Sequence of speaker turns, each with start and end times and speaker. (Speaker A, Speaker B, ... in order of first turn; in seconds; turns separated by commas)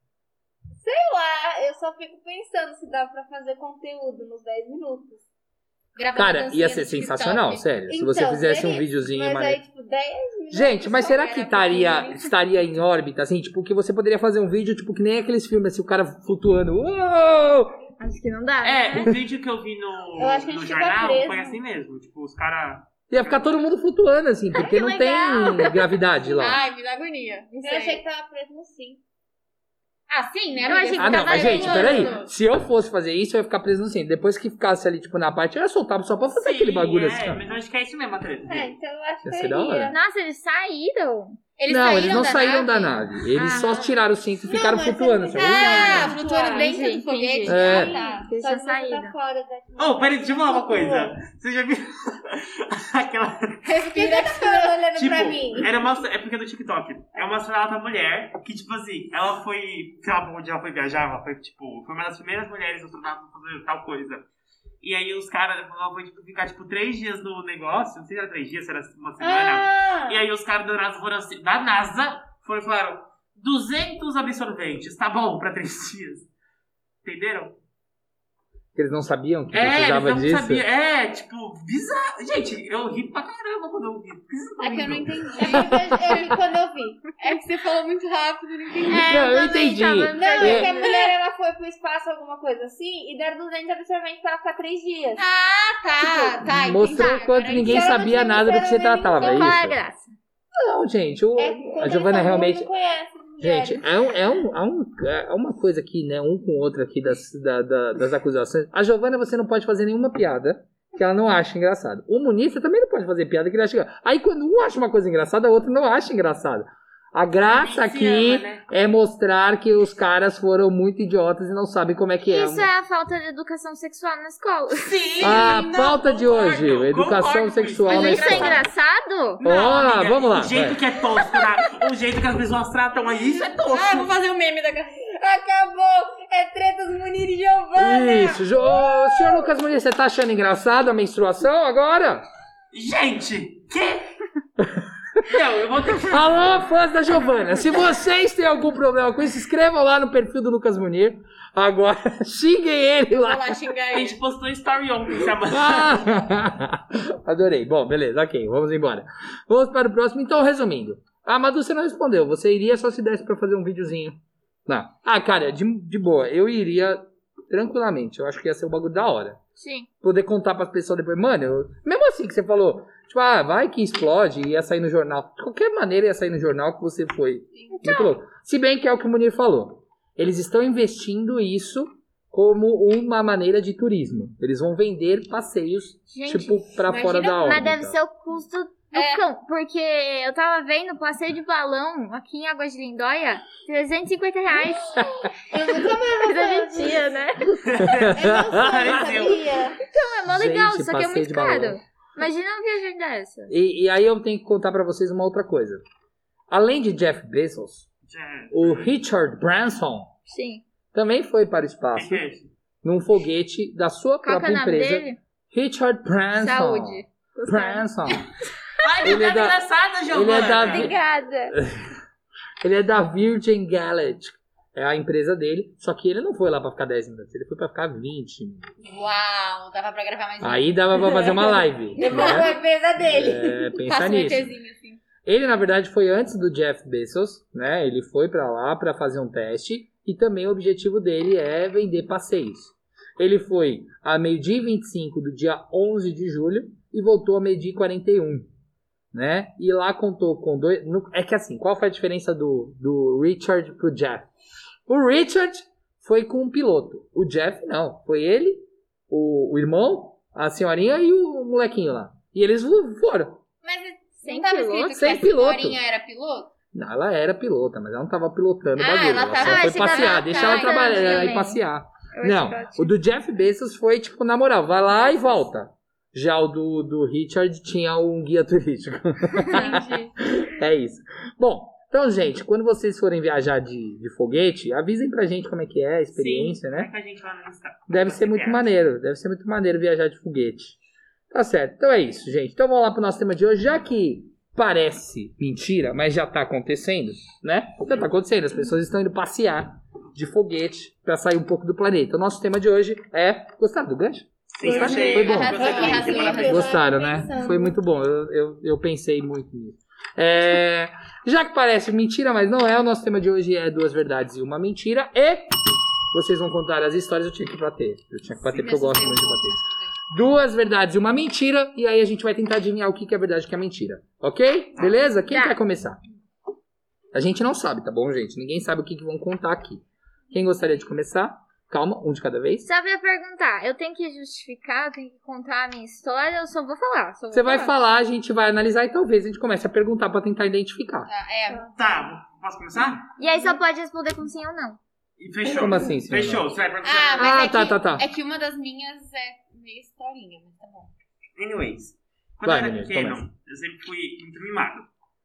Speaker A: 0.8-5.2, Speaker B: 6.0-7.7, Speaker C: 6.1-9.6, Speaker A: 7.9-12.2, Speaker C: 10.5-17.8, Speaker D: 18.0-19.1, Speaker E: 18.6-23.5, Speaker A: 20.2-21.6, Speaker C: 23.1-26.6, Speaker D: 24.5-25.9, Speaker B: 26.3-28.0, Speaker A: 27.6-29.0, Speaker B: 30.1-32.3, Speaker D: 30.6-32.2, Speaker C: 31.0-37.4, Speaker E: 36.3-38.8, Speaker A: 38.5-40.0, Speaker C: 39.2-40.0, Speaker D: 39.9-41.4, Speaker B: 41.6-43.0, Speaker C: 41.7-46.1, Speaker D: 43.4-43.8, Speaker A: 44.5-46.9, Speaker B: 45.3-48.3, Speaker D: 46.4-49.1, Speaker C: 47.5-47.9, Speaker A: 47.5-51.1, Speaker E: 49.8-53.7, Speaker B: 53.6-54.9, Speaker A: 53.9-55.7, Speaker E: 54.9-64.2, Speaker E: 64.8-76.3, Speaker A: 69.2-70.2, Speaker E: 77.0-77.6, Speaker C: 78.7-80.6, Speaker E: 79.5-85.5, Speaker B: 84.6-86.3, Speaker A: 85.3-87.1, Speaker B: 87.2-89.3, Speaker D: 88.9-90.9, Speaker C: 89.1-90.7, Speaker A: 90.1-95.2, Speaker B: 90.2-91.1, Speaker B: 95.2-98.1, Speaker A: 96.0-96.4, Speaker C: 96.4-99.8, Speaker A: 97.6-99.5, Speaker D: 99.2-100.1, Speaker C: 100.5-102.7, Speaker A: 101.3-103.8, Speaker C: 103.4-122.7, Speaker E: 117.4-118.6, Speaker D: 122.2-125.3, Speaker E: 124.7-128.7, Speaker C: 125.2-128.6, Speaker B: 125.3-126.0, Speaker D: 127.9-129.5, Speaker E: 129.4-134.1, Speaker C: 129.4-130.8, Speaker B: 133.7-135.1, Speaker A: 135.2-139.4, Speaker C: 137.8-142.2, Speaker E: 142.7-144.2, Speaker C: 144.6-145.2, Speaker E: 145.2-146.6, Speaker C: 146.1-153.6, Speaker B: 153.1-154.2, Speaker E: 153.9-156.1, Speaker C: 155.5-169.4, Speaker D: 169.6-169.9, Speaker C: 170.0-188.0, Speaker B: 177.5-177.8, Speaker D: 177.7-178.2, Speaker D: 186.1-186.8, Speaker B: 186.9-187.6, Speaker D: 187.3-197.8, Speaker B: 188.9-189.2, Speaker C: 194.9-195.3, Speaker A: 195.5-197.2, Speaker E: 197.6-199.6, Speaker C: 197.8-198.9, Speaker A: 198.1-199.8, Speaker D: 199.8-203.5, Speaker C: 200.3-201.8, Speaker C: 203.5-205.8, Speaker C: 206.5-207.8, Speaker E: 208.1-208.9, Speaker C: 208.5-210.1, Speaker D: 210.3-210.6, Speaker C: 210.9-212.2, Speaker E: 211.9-212.5, Speaker C: 212.8-218.2, Speaker D: 214.2-215.2, Speaker D: 216.4-218.2, Speaker E: 218.8-220.9, Speaker C: 219.0-221.0, Speaker D: 220.5-221.6, Speaker C: 221.5-221.9, Speaker C: 222.6-228.7, Speaker B: 228.8-232.6, Speaker C: 230.4-234.5, Speaker A: 231.9-233.6, Speaker B: 233.8-235.0, Speaker C: 235.2-248.5, Speaker C: 249.1-254.3, Speaker C: 254.9-263.4, Speaker B: 263.6-266.5, Speaker D: 264.2-265.2, Speaker C: 264.9-265.8, Speaker C: 266.7-286.9, Speaker B: 268.8-271.4, Speaker D: 269.3-272.9, Speaker B: 279.5-280.1, Speaker E: 286.1-288.7, Speaker C: 287.9-290.8, Speaker C: 291.3-305.7, Speaker E: 304.5-306.8, Speaker B: 304.6-306.8, Speaker A: 304.7-307.7, Speaker C: 306.4-315.5, Speaker C: 316.1-319.6, Speaker B: 318.4-320.0, Speaker C: 320.1-326.0, Speaker D: 325.3-325.6, Speaker C: 327.1-332.7, Speaker D: 332.6-337.7, Speaker C: 337.3-341.1, Speaker B: 341.1-341.7, Speaker E: 341.8-343.1, Speaker D: 343.2-344.8, Speaker E: 345.2-347.4, Speaker C: 345.6-346.4, Speaker B: 346.8-350.9, Speaker C: 347.2-348.0, Speaker E: 351.4-354.9, Speaker C: 352.4-353.2